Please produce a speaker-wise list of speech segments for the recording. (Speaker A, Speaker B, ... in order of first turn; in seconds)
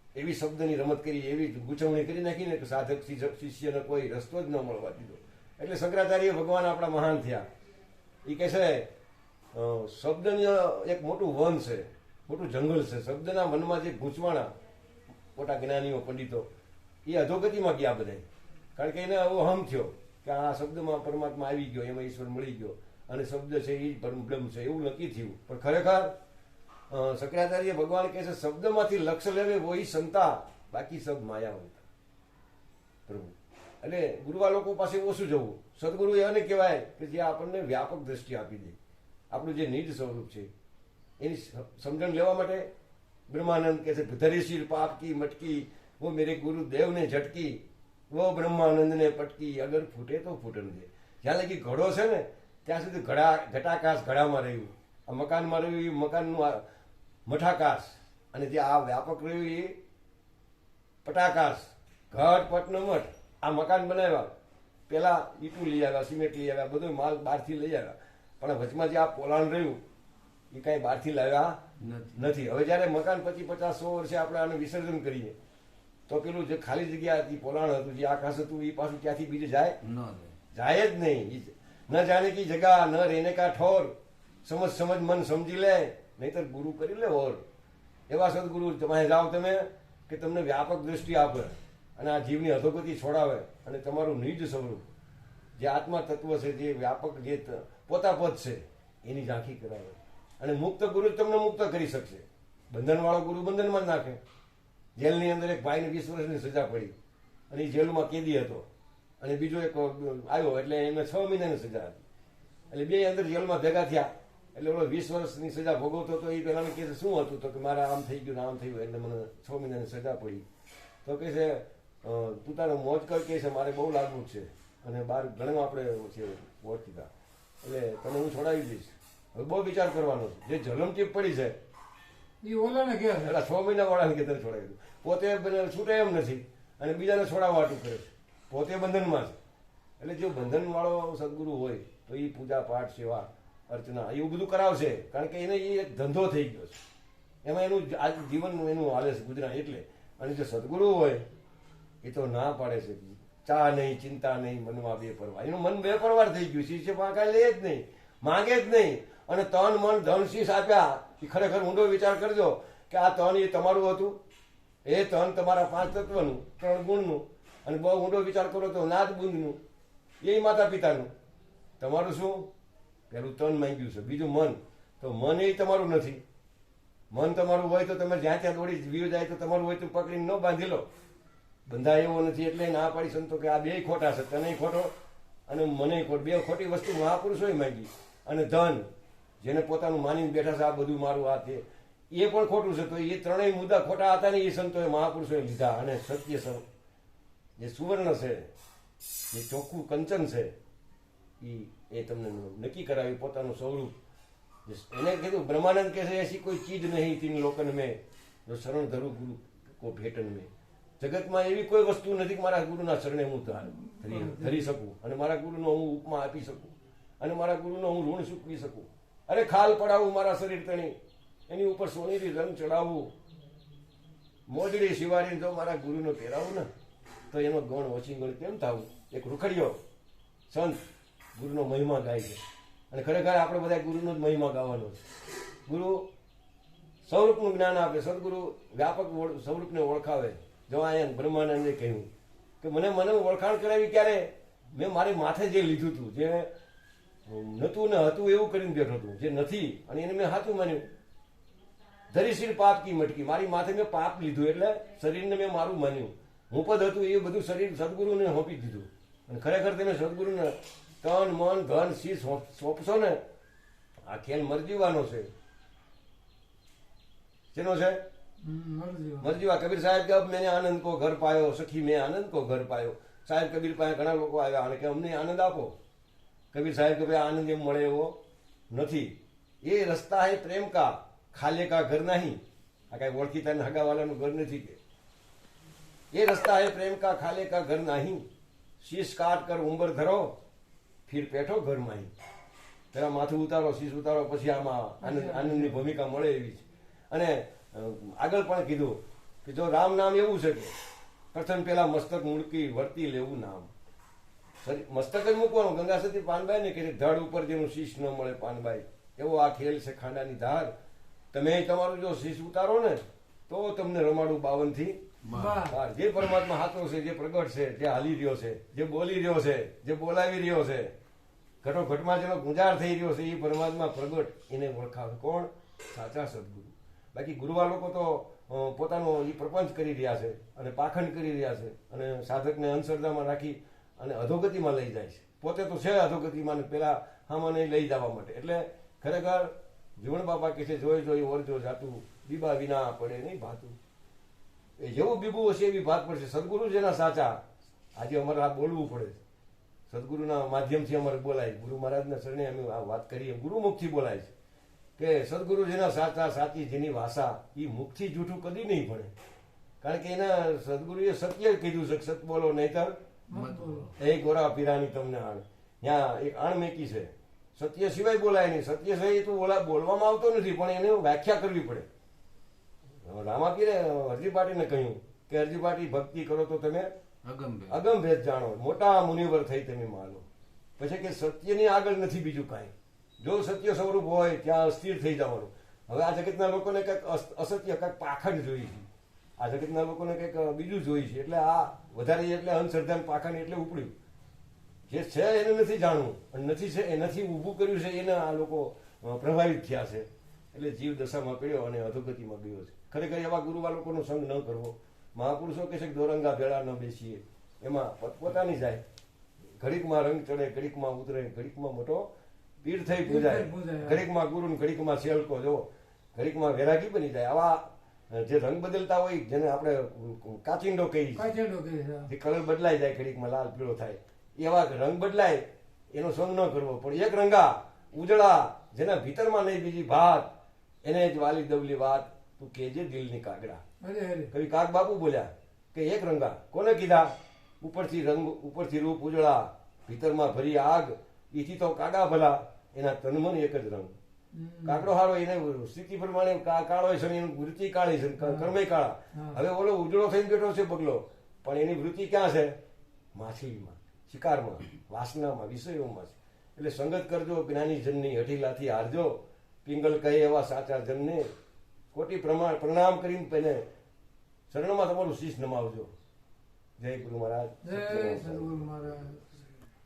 Speaker A: 0.1-7.5, 8.2-8.9, 9.5-14.5, 15.4-16.5, 17.1-26.1, 26.9-31.9, 33.1-38.8, 39.3-40.5, 41.2-42.7, 43.3-56.6, 57.3-59.8, 61.0-64.3, 64.9-69.8, 70.5-71.6, 72.1-75.3, 76.1-79.8, 80.5-87.4, 88.1-94.8, 95.6-104.2, 105.0-106.9, 107.5-108.7, 109.2-112.0, 112.7-120.5, 121.0-127.1, 127.6-131.6, 133.2-139.4, 140.0-146.8, 147.4-151.2, 152.0-164.2, 164.9-169.6, 170.2-171.1, 171.8-172.5, 173.1-176.2, 177.1-180.9, 181.7-184.9, 185.5-188.9, 189.4-196.6, 197.6-198.5, 199.3-200.5, 201.4-203.9, 204.7-221.0, 221.5-223.1, 224.5-226.7, 227.3-229.8, 230.5-230.8, 231.4-232.4, 232.9-235.0, 235.7-236.1, 237.1-242.1, 242.6-246.5, 247.3-250.9, 252.1-263.2, 264.1-265.3, 267.5-268.0, 269.2-275.8, 276.5-278.2, 278.7-284.8, 286.1-288.3, 288.8-290.3, 291.1-292.1, 292.9-300.7, 301.3-303.7, 304.6-310.7, 311.3-315.0, 315.7-320.9, 321.6-343.8, 344.8-347.4, 348.0-349.2, 349.9-354.3, 355.0-359.1, 359.8-362.9, 364.0-371.9, 373.0-376.9, 377.7-380.2, 380.8-388.8, 389.4-393.9, 394.9-408.8, 409.6-412.1, 412.6-421.3, 422.1-430.3, 430.8-433.6, 434.3-443.9, 444.6-452.6, 453.1-461.3, 461.9-463.6, 464.5-465.9, 466.8-468.9
Speaker B: 71.8-72.3, 79.8-80.4, 315.2-315.7, 363.3-363.9, 377.2-377.8
Speaker C: 132.4-133.4, 213.7-214.7, 268.4-269.4, 295.0-295.8, 315.3-315.8, 363.3-363.9, 413.0-414.1, 421.2-422.1, 433.8-434.3, 444.3-444.9, 448.2-448.5, 449.1-449.4, 467.6-469.5